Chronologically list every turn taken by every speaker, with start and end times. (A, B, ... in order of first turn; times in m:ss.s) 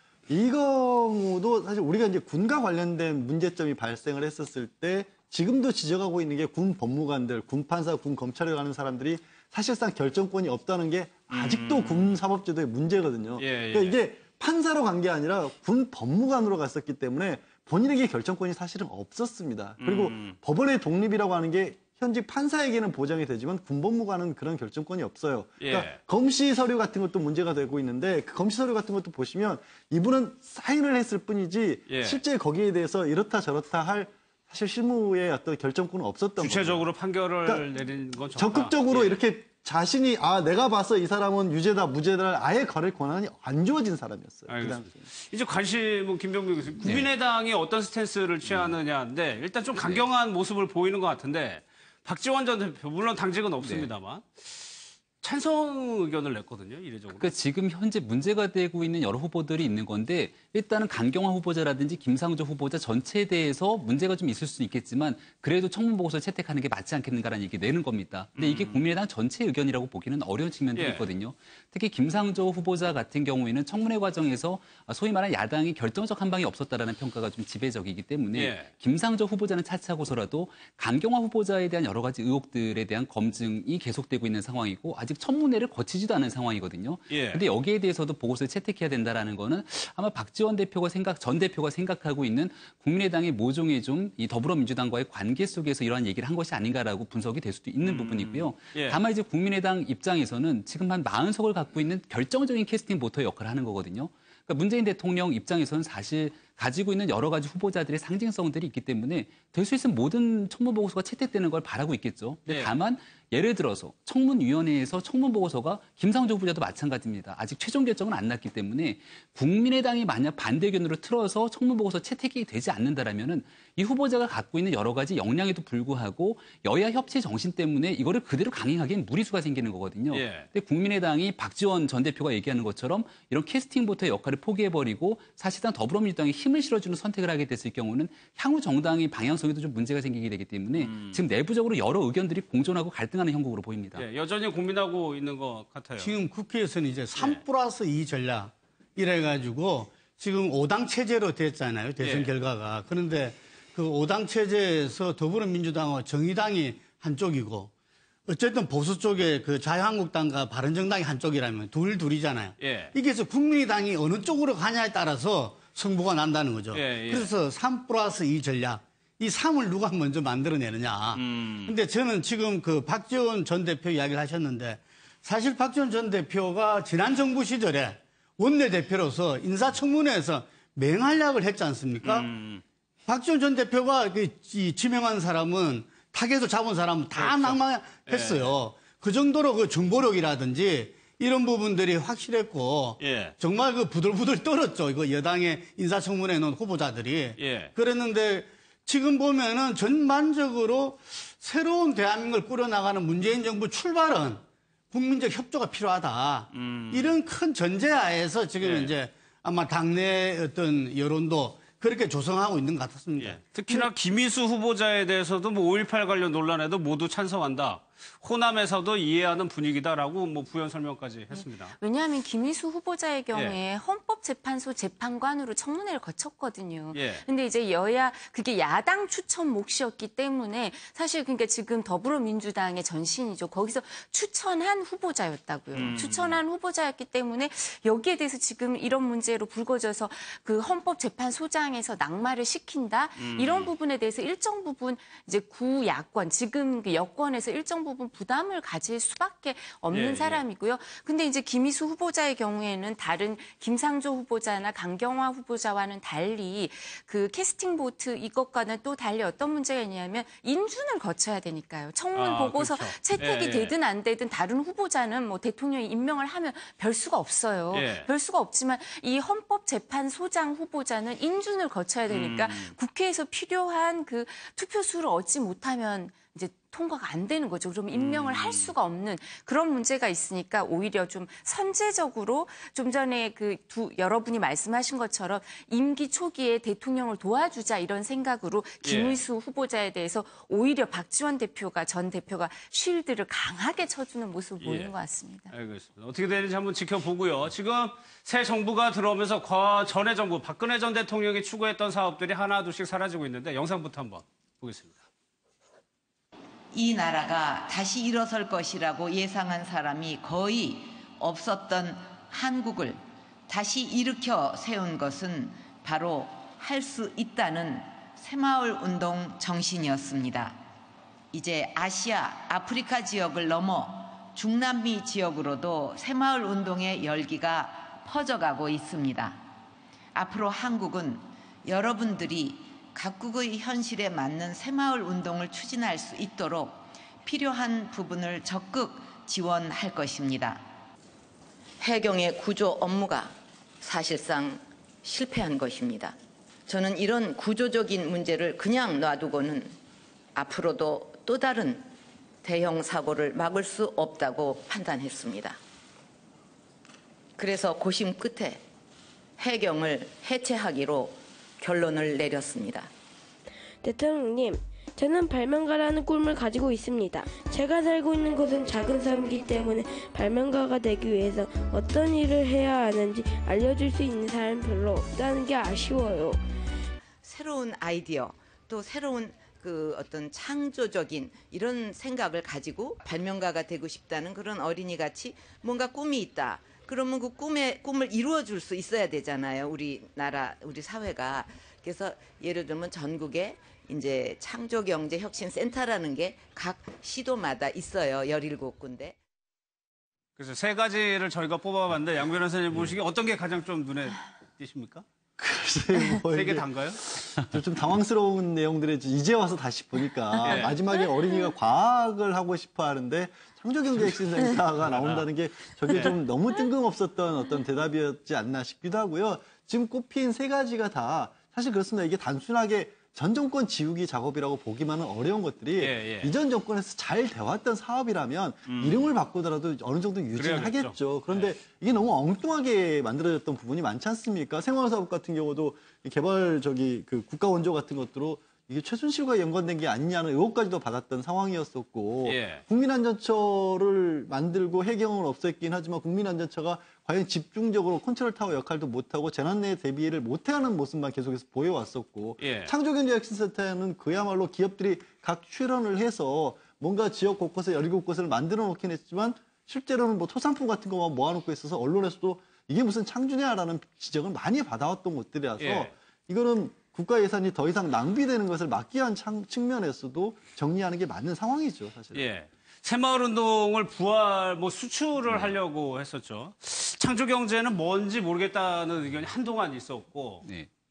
0:00.3-0:36.9 A
0:11.3-0:12.2 B
0:13.4-0:14.0 B
0:19.8-0:20.4 B
0:25.6-0:26.0 B
0:31.9-0:32.2 B
0:36.4-0:39.2 B
0:38.4-0:45.0 A
0:44.5-0:57.3 B
0:46.8-0:47.1 C
0:48.5-0:48.8 C
0:49.8-0:50.1 C
0:53.6-0:53.9 C
0:57.1-2:24.0 C
1:08.4-1:08.8 B
1:10.8-1:11.0 B
1:18.4-1:18.7 B
1:27.1-1:27.4 B
1:37.8-1:39.0 B
1:52.5-1:52.7 B
2:10.1-2:10.5 B
2:20.8-2:21.2 B
2:24.0-2:26.1 B
2:26.0-2:37.7 D
2:32.0-2:32.3 B
2:38.3-3:02.3 D
2:42.6-2:42.9 B
2:46.7-2:47.3 B
2:51.2-2:51.7 B
3:02.0-3:02.6 B
3:03.1-3:33.4 D
3:07.2-3:08.5 B
3:13.0-3:13.4 B
3:17.4-3:17.7 B
3:26.5-3:27.2 B
3:28.6-3:28.9 B
3:33.2-3:41.8 B
3:41.3-4:55.5 E
3:46.9-3:47.3 B
3:55.7-3:56.4 B
4:03.2-4:03.7 B
4:09.9-4:10.4 B
4:22.1-4:23.7 B
4:27.7-4:28.1 B
4:32.1-4:32.7 B
4:37.9-4:38.7 B
4:48.8-4:49.2 B
4:54.6-4:54.9 B
4:55.5-5:05.0 B
5:06.7-5:20.6 F
5:21.3-5:29.4 F
5:30.1-5:40.7 F
5:41.8-5:46.2 F
5:46.7-5:49.8 F
5:50.4-5:51.9 F
5:52.4-5:55.6 F
5:57.4-5:58.6 F
5:59.4-6:02.9 F
6:03.8-6:16.4 G
6:17.2-6:39.2 F
6:40.4-6:45.0 B
6:45.4-7:52.3 A
6:46.3-6:47.2 B
6:50.4-6:50.8 B
6:54.8-6:55.2 B
7:05.8-7:06.3 B
7:08.7-7:09.1 B
7:10.4-7:11.5 B
7:22.2-7:22.6 B
7:32.4-7:32.7 B
7:45.6-7:45.9 B
7:52.1-8:00.4 B
7:55.3-7:55.6 C